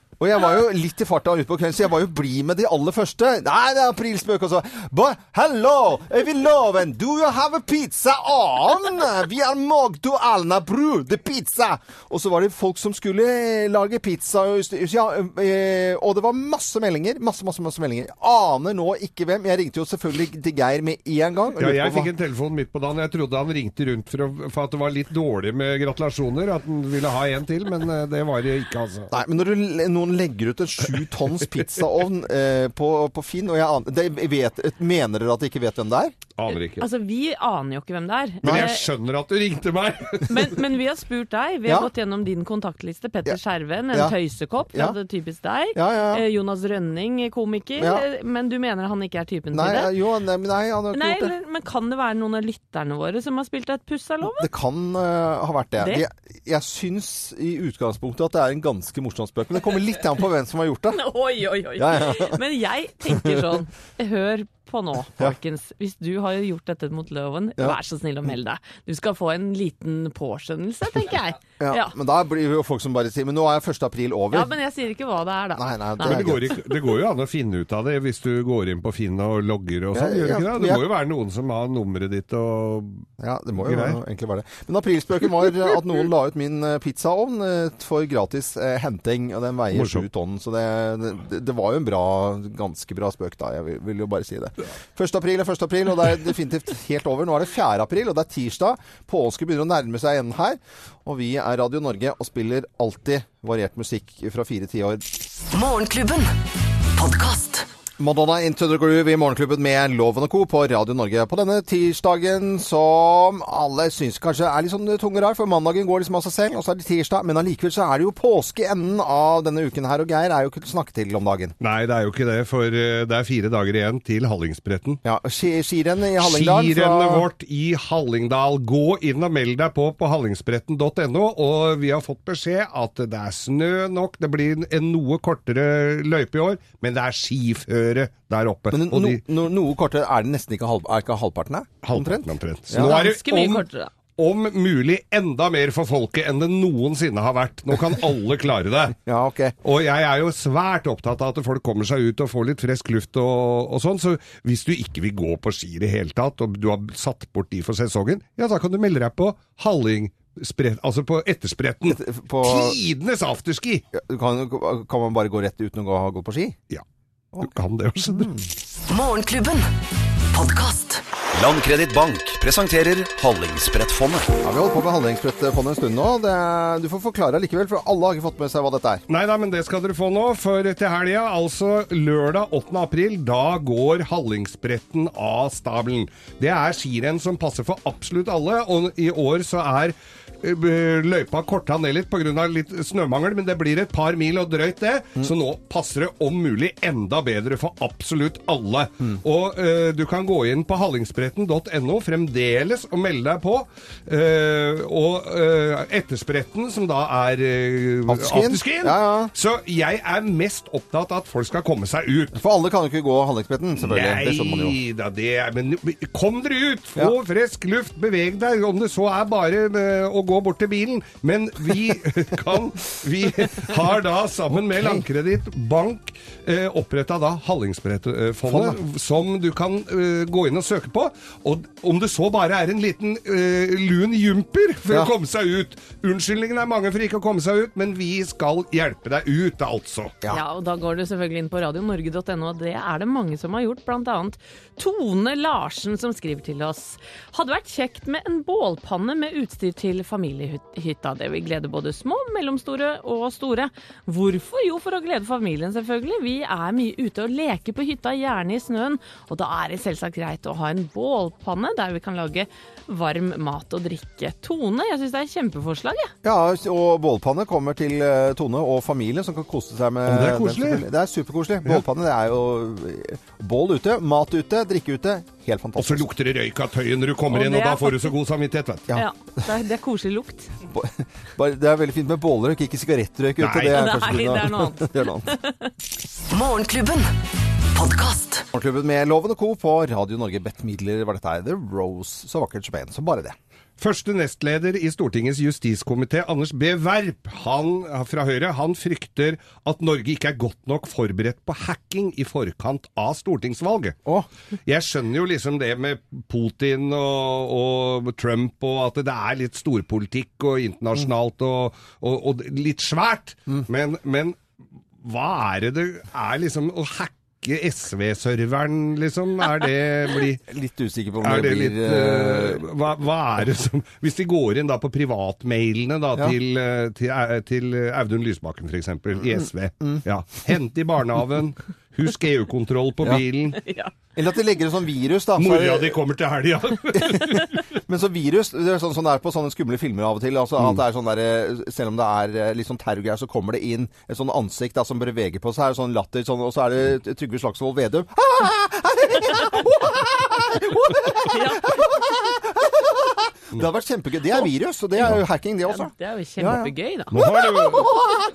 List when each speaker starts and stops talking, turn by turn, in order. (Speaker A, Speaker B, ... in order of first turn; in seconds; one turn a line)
Speaker A: 0.2-22.1
Speaker B: 21.6-29.1
Speaker A: 29.1-36.1
Speaker B: 36.4-36.9
Speaker C: 36.5-38.9
Speaker A: 38.4-38.7
Speaker B: 38.4-40.6
Speaker C: 40.3-49.9
Speaker A: 45.7-46.2
Speaker A: 47.8-48.0
Speaker A: 49.5-51.3
Speaker C: 50.9-54.5
Speaker A: 54.2-61.0
Speaker C: 55.8-56.0
Speaker C: 60.9-71.9
Speaker A: 61.8-62.4
Speaker A: 67.6-68.3
Speaker A: 71.6-74.5
Speaker C: 74.3-76.3
Speaker A: 75.5-76.5
Speaker B: 76.0-83.0
Speaker A: 79.9-80.8
Speaker A: 83.2-105.1
Speaker B: 83.6-84.0
Speaker B: 89.7-90.0
Speaker D: 105.5-106.3
Speaker D: 106.9-107.7
Speaker A: 108.0-121.5
Speaker B: 121.6-125.0
Speaker A: 125.0-127.2
Speaker B: 126.2-139.2
Speaker A: 138.7-143.0
Speaker B: 141.8-143.6
Speaker C: 142.7-143.9
Speaker B: 144.2-149.0
Speaker A: 149.0-149.5
Speaker B: 149.6-163.8
Speaker A: 161.8-162.8
Speaker A: 163.9-166.6
Speaker B: 167.4-168.3
Speaker A: 168.0-168.5
Speaker D: 168.9-169.7
Speaker D: 170.3-171.0
Speaker E: 171.3-174.3
Speaker A: 174.4-179.0
Speaker B: 179.1-212.4
Speaker A: 208.1-209.3
Speaker A: 212.3-214.8
Speaker B: 213.8-240.1
Speaker A: 224.7-225.1
Speaker A: 228.4-228.8
Speaker C: 240.3-266.1
Speaker A: 266.2-276.1
Speaker B: 270.1-270.8
Speaker B: 275.8-278.9
Speaker C: 277.3-278.1
Speaker C: 278.9-280.5
Speaker A: 280.7-285.4
Speaker B: 283.4-283.9
Speaker C: 283.7-285.7
Speaker D: 286.3-287.1
Speaker D: 287.7-288.4
Speaker A: 288.5-293.4
Speaker B: 293.8-303.9
Speaker B: 304.6-314.4
Speaker B: 315.0-320.4
Speaker A: 320.5-322.6
Speaker B: 321.2-333.6
Speaker A: 329.4-330.0
Speaker C: 333.6-333.9
Speaker A: 334.1-336.0
Speaker B: 335.4-337.6
Speaker A: 337.0-357.9
Speaker C: 351.2-351.8
Speaker C: 355.6-357.1
Speaker B: 357.1-358.0